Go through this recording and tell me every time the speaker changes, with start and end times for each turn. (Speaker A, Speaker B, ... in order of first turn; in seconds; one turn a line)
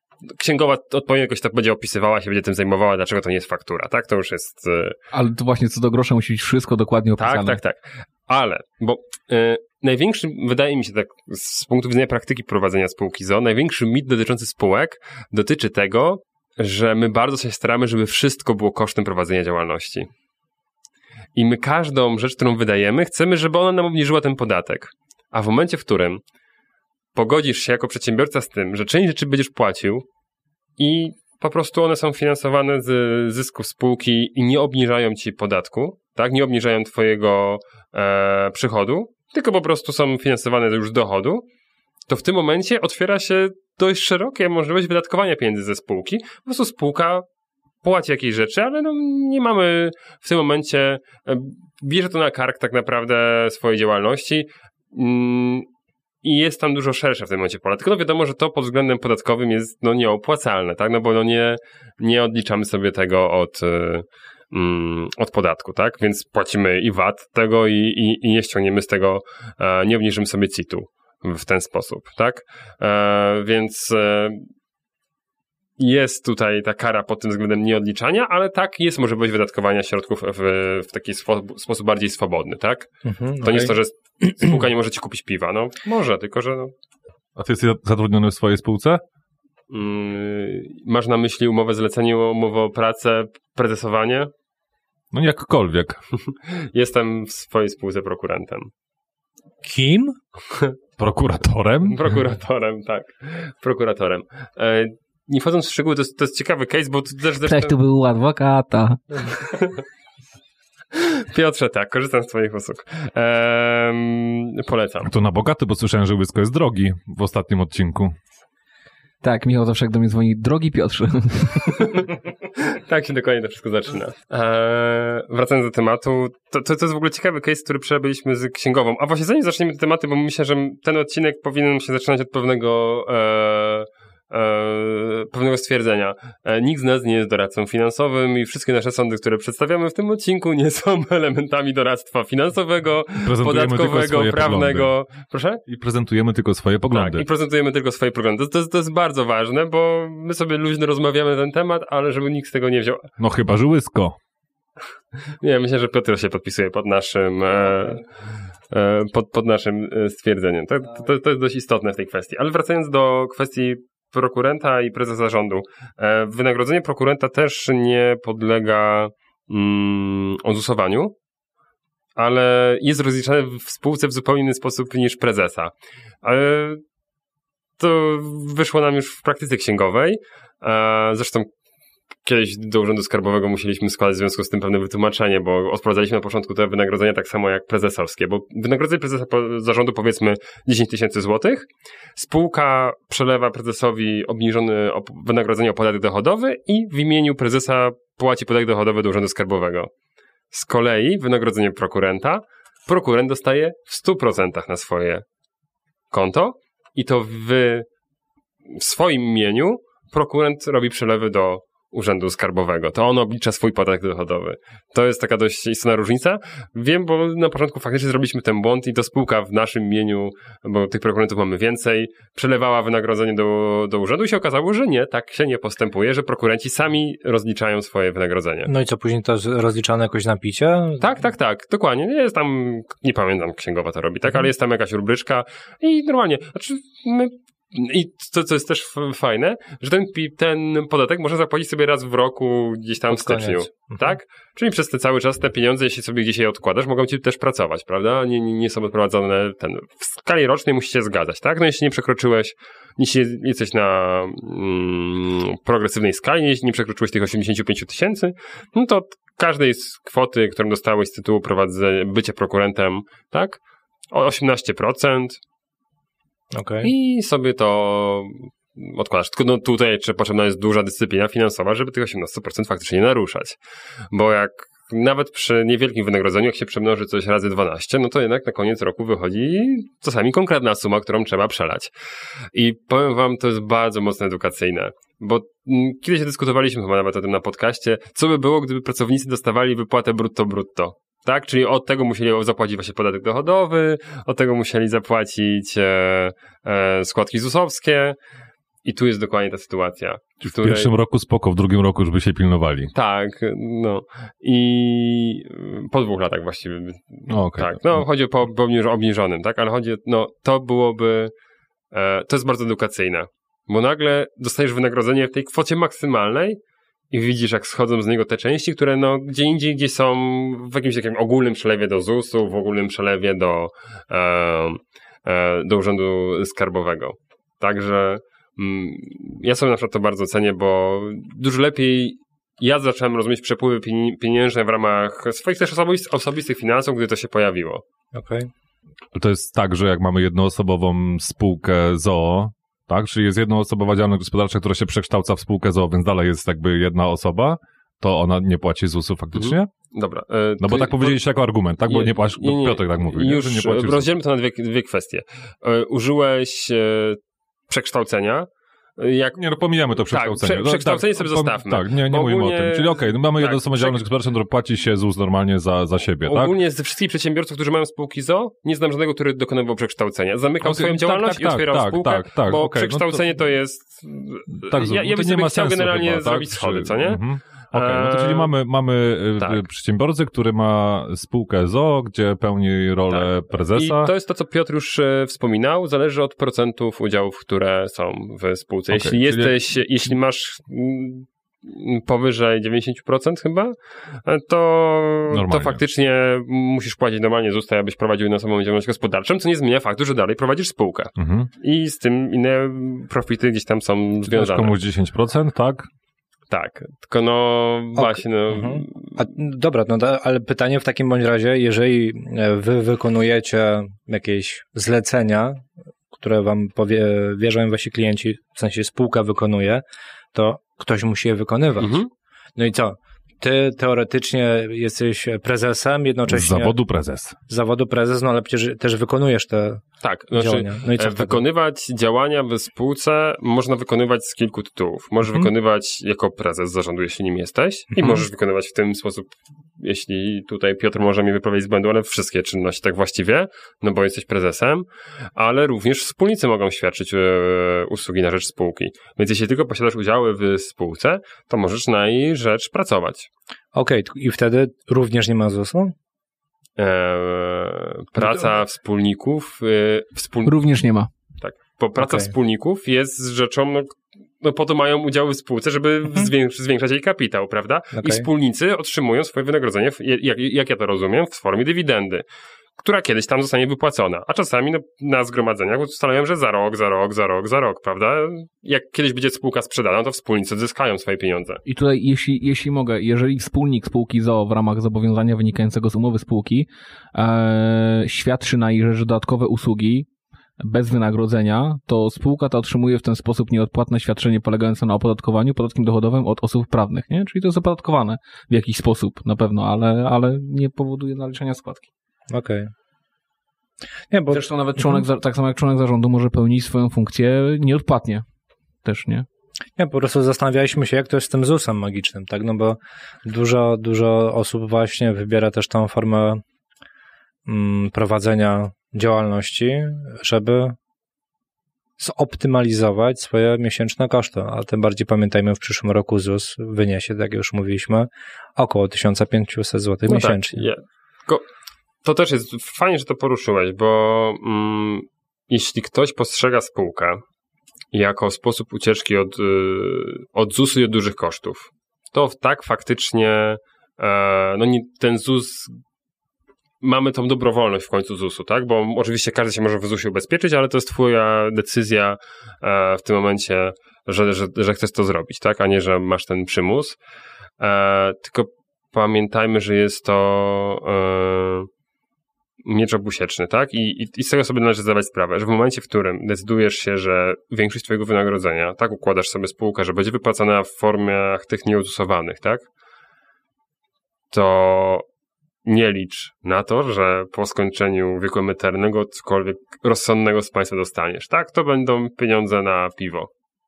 Speaker A: 0.3-5.0
Speaker B: 5.1-7.6
Speaker A: 7.2-20.1
Speaker A: 21.4-26.2
Speaker A: 27.1-30.1
Speaker A: 30.8-41.4
Speaker A: 42.1-47.2
Speaker A: 47.8-55.7
Speaker A: 56.2-74.5
Speaker A: 75.8-86.7
Speaker C: 83.1-83.8
Speaker D: 87.4-89.0
Speaker A: 89.7-94.3
Speaker D: 95.1-96.0
Speaker A: 96.5-98.7
Speaker C: 99.6-100.2
Speaker D: 101.0-102.0
Speaker A: 101.8-107.8
Speaker B: 107.4-109.3
Speaker A: 109.4-109.8
Speaker A: 110.9-115.1
Speaker D: 115.0-118.2
Speaker B: 119.2-122.0
Speaker A: 122.6-145.6
Speaker D: 143.2-144.9
Speaker D: 145.7-147.2
Speaker A: 146.9-153.1
Speaker D: 153.2-154.2
Speaker A: 155.4-158.1
Speaker A: 158.7-171.2
Speaker A: 172.2-175.7
Speaker A: 176.2-176.8
Speaker A: 177.8-181.5
Speaker A: 182.2-199.9
Speaker A: 200.5-205.2
Speaker A: 206.1-207.9
Speaker A: 208.7-228.7
Speaker C: 228.7-231.2
Speaker A: 231.0-263.6
Speaker C: 243.1-244.0
Speaker A: 264.1-265.4
Speaker C: 266.5-266.9
Speaker A: 266.8-273.6
Speaker A: 274.1-281.9
Speaker A: 282.5-298.2
Speaker A: 298.8-300.9
Speaker D: 300.4-302.9
Speaker A: 302.9-311.3
Speaker D: 307.3-308.1
Speaker A: 311.9-316.6
Speaker A: 317.1-337.8
Speaker C: 338.1-338.5
Speaker D: 339.1-349.7
Speaker A: 349.4-359.4
Speaker D: 350.6-354.1
Speaker D: 359.4-366.6
Speaker A: 360.1-364.0
Speaker A: 366.3-378.5
Speaker D: 370.6-373.2
Speaker D: 374.6-384.1
Speaker A: 379.4-379.6
Speaker A: 383.1-404.8
Speaker D: 388.9-389.6
Speaker D: 395.3-395.8
Speaker D: 401.2-401.5
Speaker D: 404.2-405.9
Speaker A: 406.5-409.1
Speaker C: 408.0-419.8
Speaker C: 420.3-422.0
Speaker A: 421.8-422.1
Speaker C: 422.6-426.8
Speaker D: 426.3-427.4
Speaker C: 427.5-429.8
Speaker A: 430.0-453.3
Speaker C: 430.4-431.4
Speaker C: 438.0-438.2
Speaker C: 453.8-455.9
Speaker A: 456.8-460.6
Speaker B: 460.4-461.1
Speaker A: 461.4-472.2
Speaker C: 462.0-462.3
Speaker C: 468.0-468.3
Speaker A: 472.8-481.6
Speaker B: 481.6-490.1
Speaker B: 490.6-501.9
Speaker C: 502.3-502.7
Speaker C: 504.1-505.0
Speaker B: 504.3-508.2
Speaker B: 508.8-509.3
Speaker C: 509.8-516.4
Speaker C: 517.5-520.8
Speaker C: 522.0-530.6
Speaker A: 530.1-531.4
Speaker A: 532.0-537.2
Speaker A: 537.9-545.7
Speaker A: 546.8-557.0
Speaker A: 557.6-561.7
Speaker A: 562.6-572.7
Speaker A: 574.3-575.0
Speaker A: 575.6-583.3